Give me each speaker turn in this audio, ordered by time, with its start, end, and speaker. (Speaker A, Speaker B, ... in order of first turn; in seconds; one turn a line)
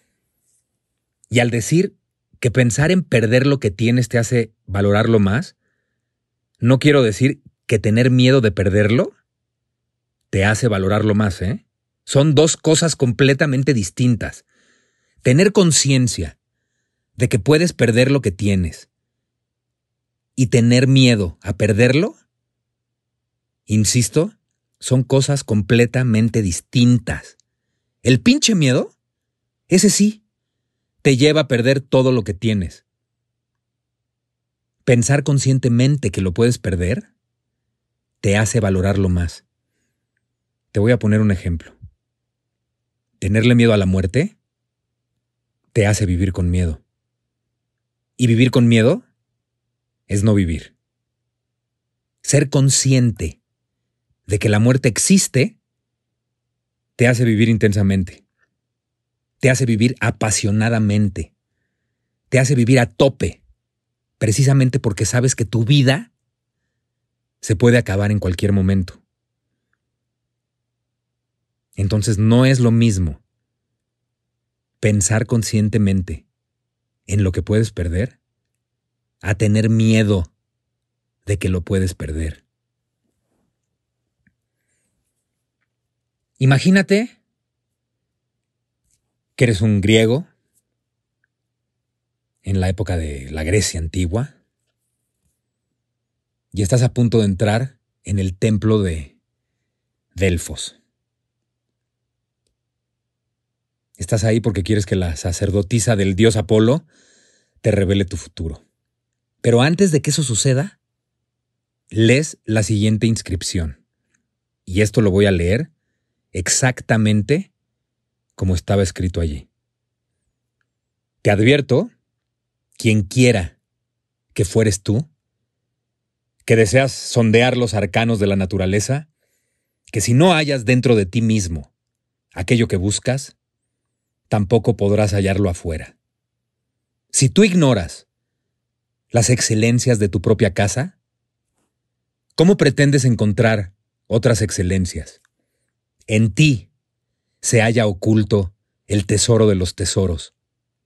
Speaker A: 1.3-5.5
Speaker A: 6.6-9.1
Speaker A: 10.3-14.4
Speaker A: 15.2-16.4
Speaker A: 17.2-18.9
Speaker A: 20.4-22.2
Speaker A: 23.7-27.4
Speaker A: 28.0-28.9
Speaker A: 29.7-30.2
Speaker A: 31.0-32.8
Speaker A: 34.9-37.1
Speaker A: 38.2-39.4
Speaker A: 40.7-41.8
Speaker A: 43.2-44.4
Speaker A: 45.7-46.8
Speaker A: 48.2-49.0
Speaker A: 50.1-50.7
Speaker A: 52.2-53.4
Speaker A: 54.3-55.6
Speaker A: 57.0-58.2
Speaker A: 59.4-61.3
Speaker A: 62.3-63.4
Speaker A: 64.2-66.1
Speaker A: 67.4-69.0
Speaker A: 71.8-73.2
Speaker A: 74.8-76.3
Speaker A: 77.1-78.2
Speaker A: 79.2-80.3
Speaker A: 81.3-82.4
Speaker A: 86.4-87.2
Speaker A: 89.4-90.3
Speaker A: 92.4-94.3
Speaker A: 96.5-99.2
Speaker A: 100.2-100.8
Speaker A: 104.0-106.9
Speaker A: 107.6-108.6
Speaker A: 109.4-110.8
Speaker A: 111.9-113.8
Speaker A: 114.7-115.7
Speaker A: 116.3-117.5
Speaker A: 118.4-119.5
Speaker A: 121.2-121.9
Speaker A: 122.8-123.6
Speaker A: 124.3-125.1
Speaker A: 126.5-129.1
Speaker A: 129.9-131.7
Speaker A: 132.3-133.3
Speaker A: 134.3-136.0
Speaker A: 137.1-138.1
Speaker A: 139.1-141.0
Speaker A: 142.4-145.2
Speaker A: 146.1-146.7
Speaker A: 147.4-150.3